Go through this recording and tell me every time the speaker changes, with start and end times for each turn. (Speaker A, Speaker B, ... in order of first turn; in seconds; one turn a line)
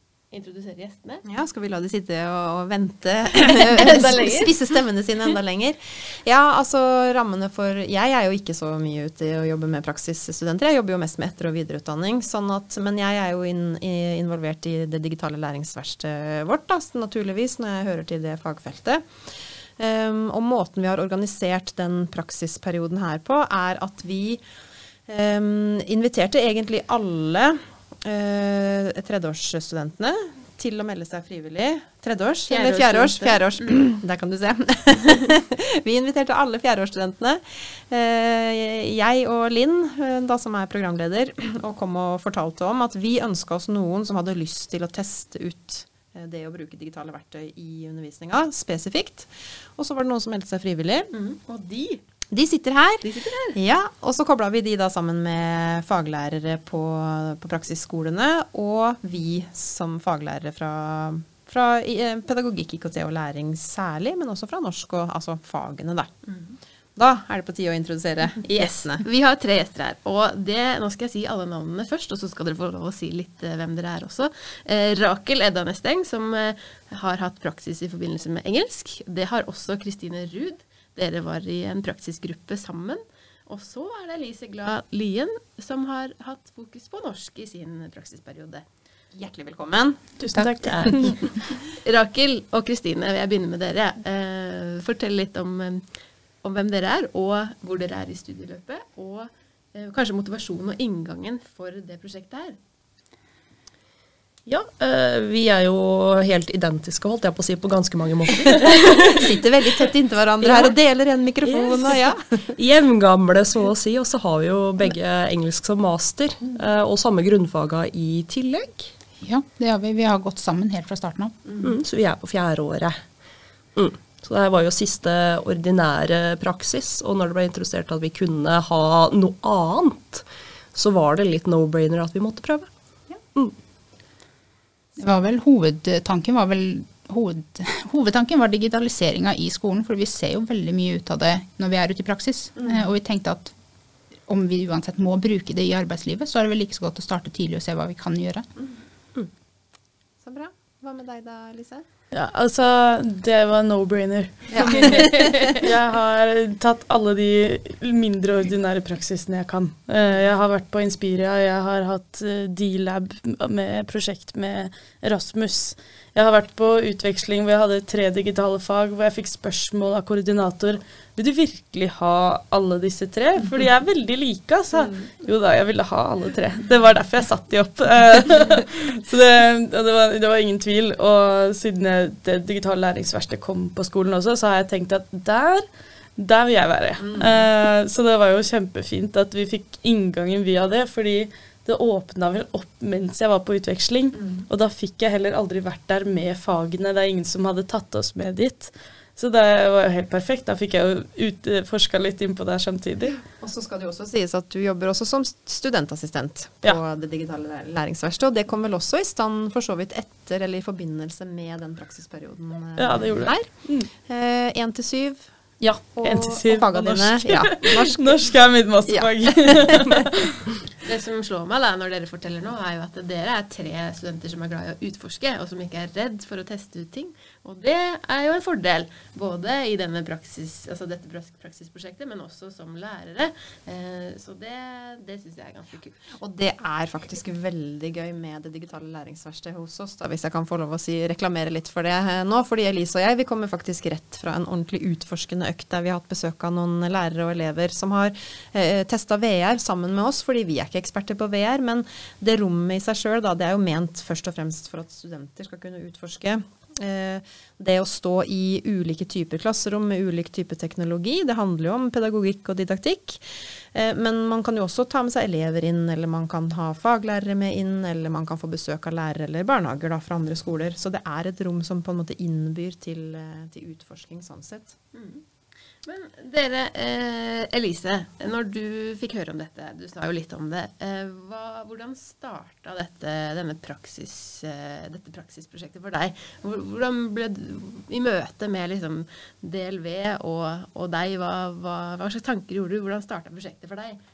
Speaker A: 0.3-1.2
Speaker B: 1.2-24.4
Speaker A: 3.4-4.5
Speaker B: 25.1-51.1
Speaker A: 32.5-33.8
Speaker A: 51.1-52.0
Speaker B: 52.3-66.2
Speaker A: 53.0-53.6
Speaker B: 67.0-69.0
Speaker A: 68.4-88.7
Speaker B: 89.1-90.0
Speaker C: 90.2-91.3
Speaker A: 91.7-95.9
Speaker A: 96.4-102.6
Speaker D: 104.5-109.2
Speaker B: 109.0-112.5
Speaker D: 110.4-110.7
Speaker D: 111.4-112.0
Speaker D: 112.6-118.9
Speaker E: 119.2-121.4
Speaker D: 121.6-123.0
Speaker D: 123.8-132.7
Speaker E: 135.0-143.5
Speaker E: 144.2-148.5
Speaker B: 150.2-151.8
Speaker C: 152.1-203.2
Speaker B: 154.5-155.5
Speaker A: 154.8-155.4
Speaker B: 187.1-187.4
Speaker B: 194.2-194.4
Speaker B: 203.2-220.1
Speaker C: 212.8-213.9
Speaker C: 215.6-220.4
Speaker A: 220.8-236.2
Speaker B: 236.2-274.8
Speaker A: 274.9-275.2
Speaker A: 275.8-294.0